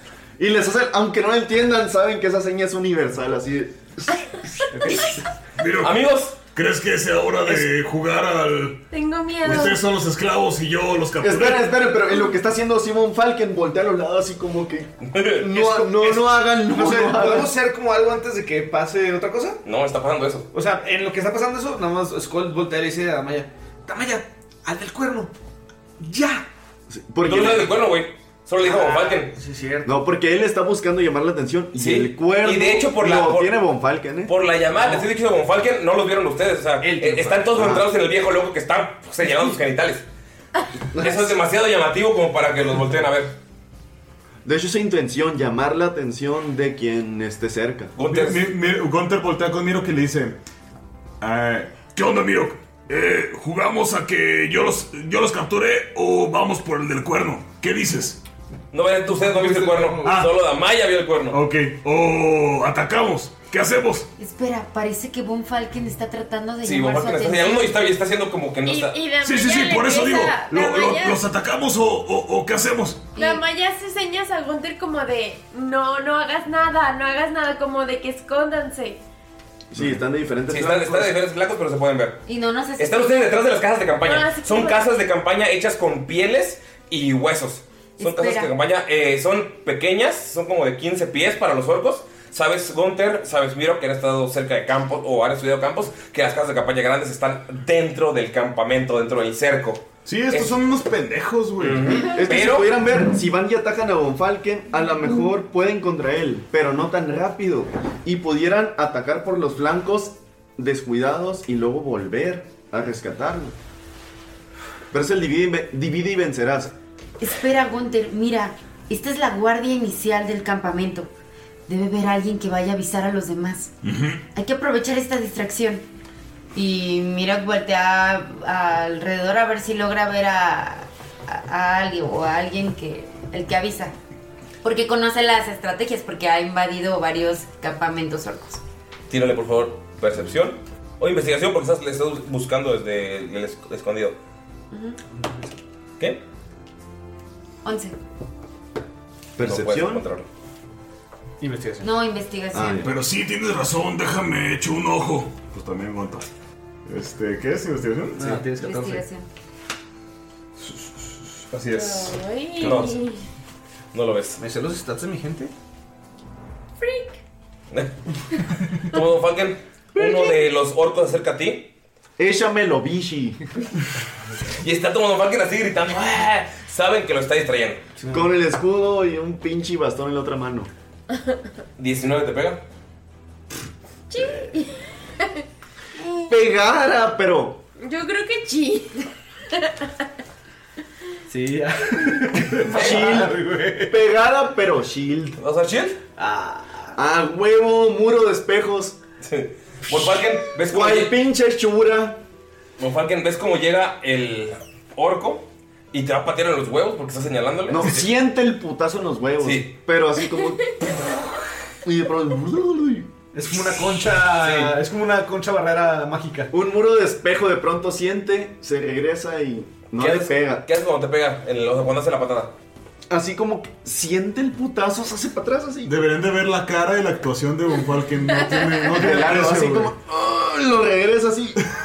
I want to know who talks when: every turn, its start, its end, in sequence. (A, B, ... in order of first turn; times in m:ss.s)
0:00.4-0:04.4 A
0:04.7-0:05.2 B
0:05.6-0:06.0 C
0:05.8-0:06.4 D
0:06.5-0:08.8 C
0:08.9-0:09.8 E
0:09.4-0:11.7 C
0:11.2-0:17.5 A
0:15.1-0:15.4 D
0:15.5-0:19.6 B
0:19.6-0:20.5 D
0:20.5-0:25.3 B
0:26.0-0:26.5 B
0:26.9-0:27.7 A
0:27.2-0:29.3 D
0:28.6-0:30.0 B
0:29.8-0:34.3 A
0:31.8-0:33.6 D
0:34.3-0:40.0 D
0:34.7-0:35.1 B
0:36.8-0:37.6 B
0:37.6-0:37.9 A
0:40.9-0:41.3 A
0:41.0-0:43.4 D
0:44.4-0:47.9 A
0:48.0-0:48.5 D
0:48.0-0:50.4 F
0:51.2-0:51.9 F
0:51.9-0:58.2 C
0:58.7-1:01.4 D
0:59.1-1:00.2 B
1:00.0-1:00.3 F
1:01.3-1:01.8 F
1:01.7-1:04.1 C
1:04.2-1:07.7 G
1:06.6-1:09.0 D
1:08.7-1:11.2 E
1:09.2-1:13.1 C
1:13.2-1:13.4 G
1:13.2-1:19.0 E
1:19.7-1:21.2 A
1:20.5-1:22.2 D
1:22.3-1:23.2 G
1:22.8-1:40.6 D
1:24.0-1:24.8 E
1:28.0-1:28.5 G
1:40.1-1:42.0 F
1:41.6-1:42.8 D
1:42.0-1:53.6 A
1:54.9-1:56.7 A
1:57.2-2:01.1 G
2:01.7-2:03.7 G
2:03.8-2:04.2 C
2:04.4-2:05.8 G
2:06.6-2:13.9 G
2:14.6-2:18.6 G
2:19.1-2:24.2 D
2:24.7-2:25.0 G
2:25.2-2:25.5 B
2:27.6-2:28.0 G
2:29.4-2:30.0 A
2:29.4-2:30.3 D
2:31.4-2:31.9 B
2:31.8-2:33.0 G
2:32.5-2:33.0 A
2:32.8-2:35.5 C
2:35.5-2:36.3 F
2:36.9-2:38.4 F
2:38.2-2:39.1 B
2:38.6-2:39.3 G
2:40.6-2:42.2 F
2:41.7-2:43.2 E
2:42.6-2:43.0 D
2:43.9-2:44.4 D
2:44.4-2:45.5 B
2:46.8-2:47.2 E
2:48.9-2:51.7 D
2:52.2-2:53.4 A
2:54.6-2:57.8 D
2:58.0-2:58.3 B
2:58.1-3:00.7 A
3:01.8-3:02.6 D
3:04.1-3:05.4 E
3:04.2-3:04.5 B
3:06.3-3:07.6 A
3:07.8-3:09.9 E
3:11.3-3:14.0 B
3:12.7-3:13.4 A
3:12.7-3:13.2 D
3:13.9-3:15.4 A
3:15.4-3:16.0 D
3:16.2-3:17.0 B
3:17.0-3:19.0 A
3:19.2-3:21.2 D
3:20.7-3:22.2 A
3:22.8-3:28.1 D
3:27.7-3:30.9 A
3:29.4-3:29.7 D
3:31.8-3:33.1 A
3:33.3-3:36.5 B
3:34.4-3:34.8 D
3:36.5-3:40.6 A
3:40.0-3:42.5 D
3:43.1-3:46.0 A
3:45.8-3:49.9 F
3:49.0-3:51.6 A